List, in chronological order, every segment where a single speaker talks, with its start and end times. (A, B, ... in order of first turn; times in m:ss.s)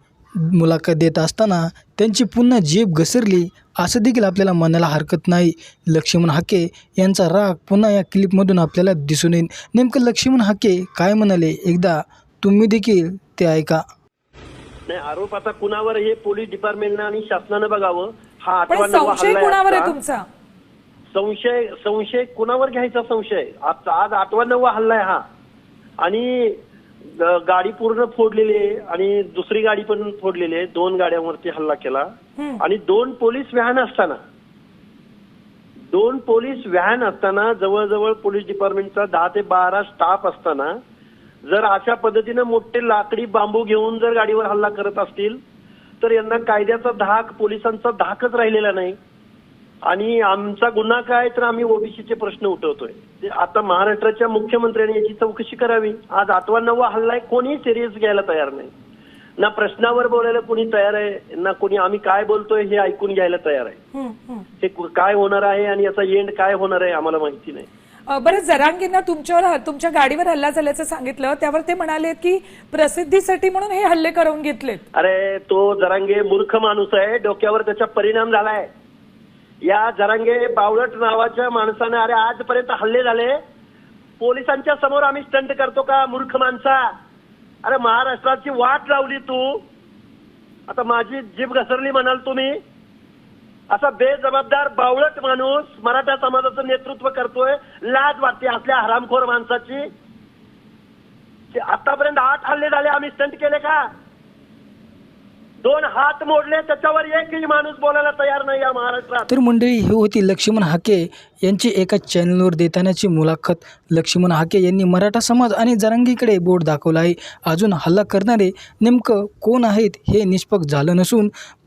0:00.4-0:13.8 A
0:14.9-0:19.9 B
0:18.7-0:20.2 C
0:21.1-0:25.2 B
0:26.0-0:32.1 B
0:32.6-0:34.2 B
0:35.9-0:40.8 B
0:41.5-0:45.4 B
0:46.0-0:49.0 B
0:49.9-0:58.7 B
0:59.4-1:03.8 B
1:04.0-1:04.4 C
1:04.6-1:07.7 B
1:08.1-1:14.8 C
1:14.9-1:18.7 B
1:19.6-1:23.4 B
1:24.2-1:26.9 B
1:27.6-1:29.6 B
1:30.7-1:32.6 B
1:33.7-1:39.8 B
1:41.5-1:43.8 B
1:45.6-1:49.3 B
1:49.3-2:01.3 A